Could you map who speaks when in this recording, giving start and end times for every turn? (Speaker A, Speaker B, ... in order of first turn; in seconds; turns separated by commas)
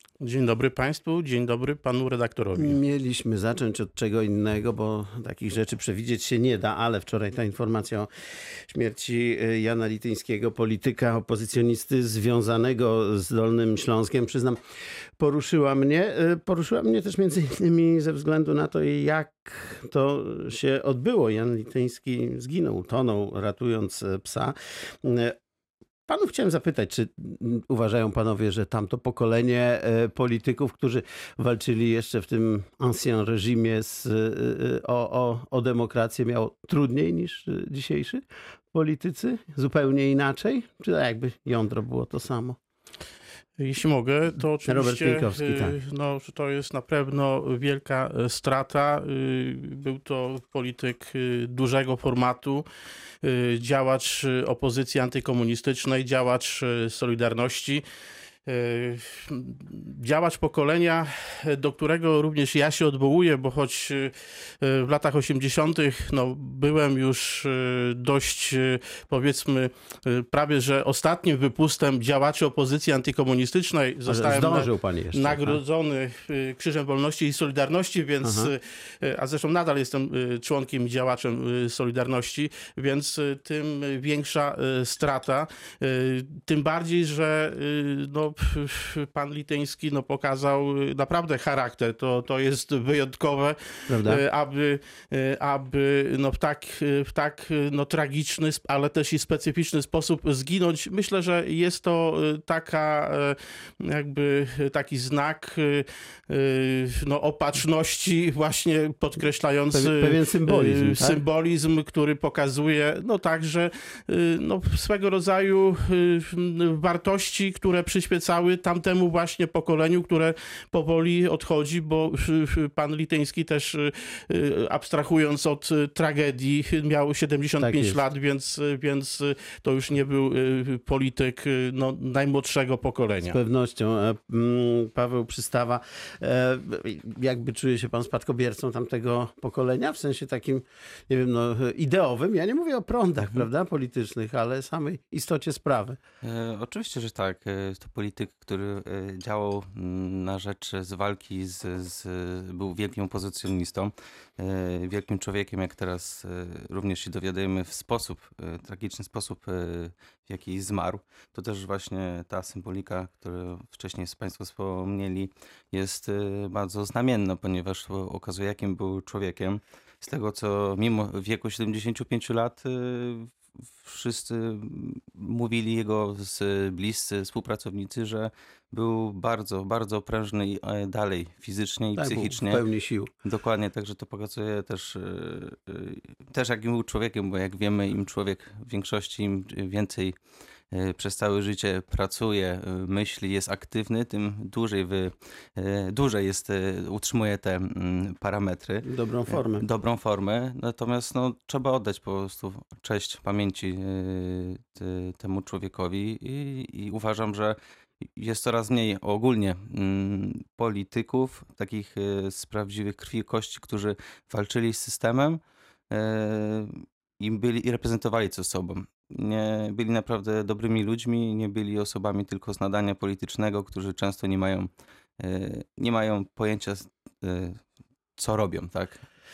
Speaker A: 0.2-2.8, Speaker B: 2.5-8.1, Speaker B: 8.7-14.6, Speaker B: 15.2-25.3, Speaker B: 26.1-38.2, Speaker B: 38.7-42.6, Speaker A: 43.6-52.6, Speaker B: 44.6-45.8, Speaker A: 53.2-57.8, Speaker A: 58.5-133.4, Speaker B: 74.0-75.6, Speaker B: 78.2-78.5, Speaker B: 93.9-94.2, Speaker B: 109.7-111.2, Speaker B: 127.6-128.0, Speaker B: 133.2-146.0, Speaker C: 146.2-182.6, Speaker B: 181.9-183.1, Speaker C: 183.2-190.1, Speaker C: 190.7-207.6, Speaker B: 198.8-199.6, Speaker C: 208.2-215.4, Speaker C: 215.9-224.7, Speaker C: 225.2-227.6, Speaker C: 228.2-229.0